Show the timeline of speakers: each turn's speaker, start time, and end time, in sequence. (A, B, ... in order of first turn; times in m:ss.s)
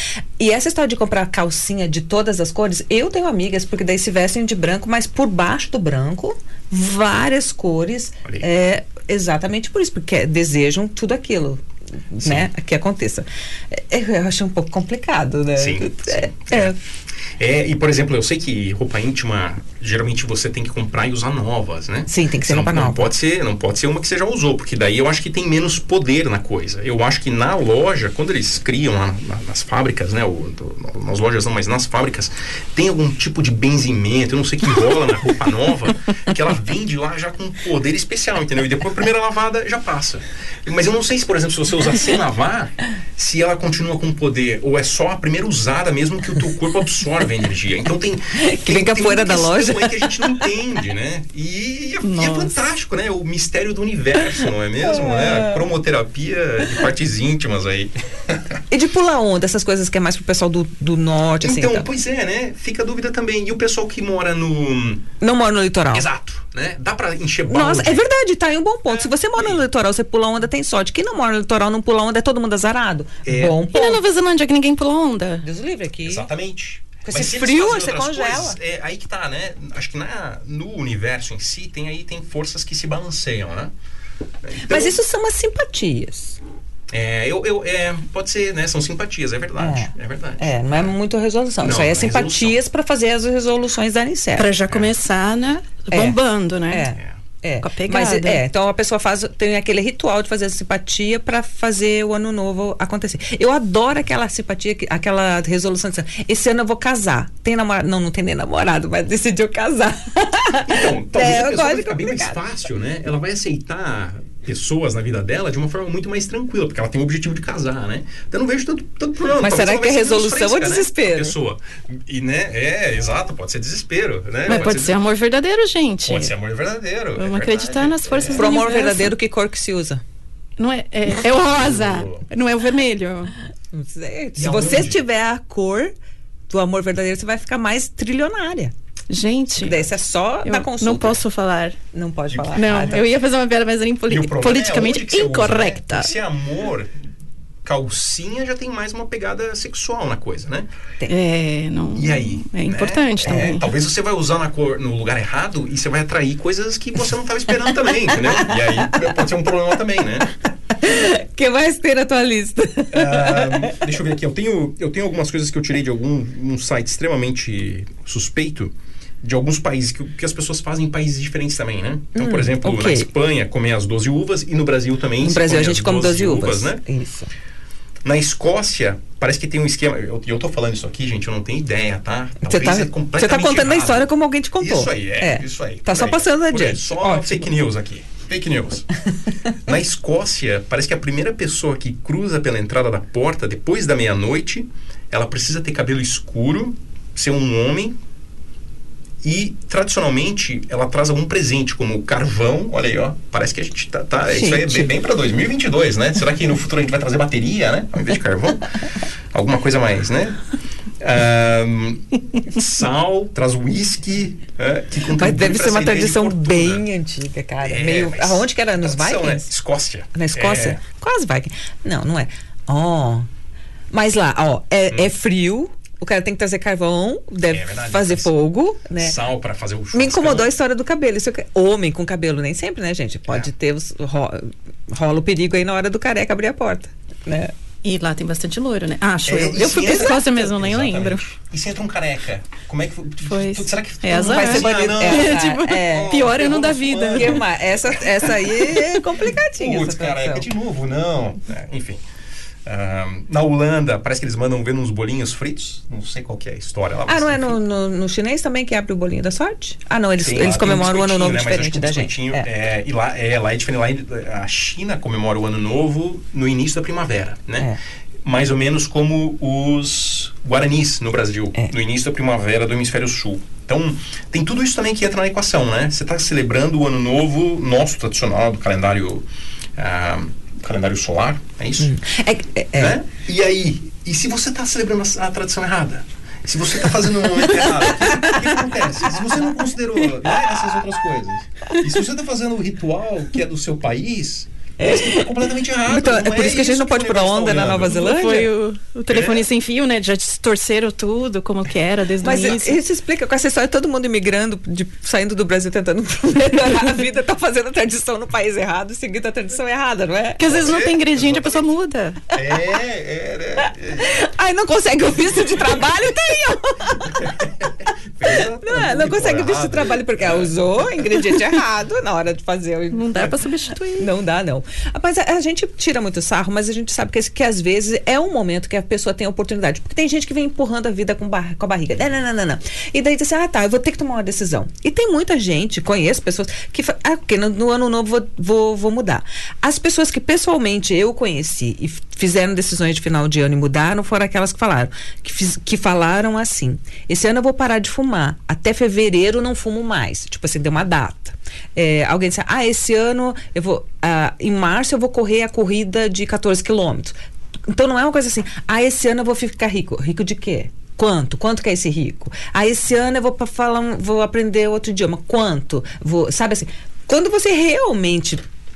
0:00.4-0:16.8 A
0:12.2-0:12.5 B
0:15.6-0:16.7 B
0:17.4-0:58.6 B
0:22.1-0:23.1 A
0:48.4-0:50.2 A
0:52.0-0:52.5 C
0:54.8-0:55.7 A
0:58.7-1:01.9 A
1:01.4-1:05.1 B
1:05.2-1:06.1 A
1:05.9-1:08.0 B
1:07.5-1:14.0 A
1:08.9-1:09.6 B
1:13.2-1:13.6 B
1:13.7-1:15.4 C
1:15.4-1:16.3 A
1:16.0-1:23.7 B
1:17.0-1:18.6 A
1:24.4-1:25.0 B
1:24.7-1:26.4 A
1:26.9-1:31.0 B
1:29.6-1:34.5 A
1:31.6-1:32.6 B
1:34.4-1:36.9 C
1:35.9-1:36.2 A
1:36.7-1:52.4 A
1:37.6-1:38.4 C
1:50.6-2:05.0 B
1:59.4-2:01.4 A
2:04.5-2:06.3 C
2:06.0-2:08.6 B
2:07.2-2:09.1 C
2:08.4-2:10.0 A
2:10.6-2:13.3 C
2:11.3-2:12.3 B
2:13.7-2:15.9 A
2:14.4-2:15.0 B
2:16.5-2:18.7 A
2:19.1-2:19.9 C
2:19.6-2:21.2 A
2:20.4-2:21.8 C
2:21.9-2:23.0 A
2:22.3-2:22.8 B
2:22.6-2:26.1 C
2:24.1-2:27.0 B
2:27.6-2:30.7 B
2:31.1-2:33.6 C
2:32.0-2:40.3 B
2:33.3-2:33.6 A
2:40.8-2:43.8 A
2:42.9-2:56.8 B
2:52.2-2:53.1 A
2:55.2-2:57.3 A
2:58.0-3:08.9 B
3:02.4-3:07.5 A
3:09.6-3:18.0 B
3:19.2-3:28.8 B
3:24.3-3:24.9 A
3:29.3-3:30.4 B
3:31.0-3:36.9 B
3:35.1-3:39.5 A
3:37.6-3:40.8 B
3:40.1-3:43.3 A
3:43.9-3:49.2 A
3:47.5-3:48.3 B
3:48.9-3:50.5 B
3:49.9-3:57.5 A
3:57.8-4:01.2 C
3:59.3-4:08.5 B
4:03.3-4:07.4 C
4:04.1-4:06.2 A
4:07.1-4:10.5 A
4:09.6-4:12.0 B
4:12.6-4:17.6 B
4:17.1-4:22.5 A
4:20.2-4:27.7 B
4:28.2-4:41.9 B
4:41.8-4:43.0 A
4:42.8-4:58.0 B
4:47.4-4:48.5 A
4:54.8-4:58.5 A
4:57.8-5:02.8 C
4:59.1-4:59.4 B
5:02.2-5:10.7 A
5:10.4-5:12.2 C
5:10.5-5:11.6 B
5:12.3-5:14.1 B
5:13.9-5:17.5 A
5:17.0-5:21.4 B
5:18.3-5:23.3 A
5:22.9-5:24.1 C
5:24.0-5:57.2 A
5:57.7-6:08.4 A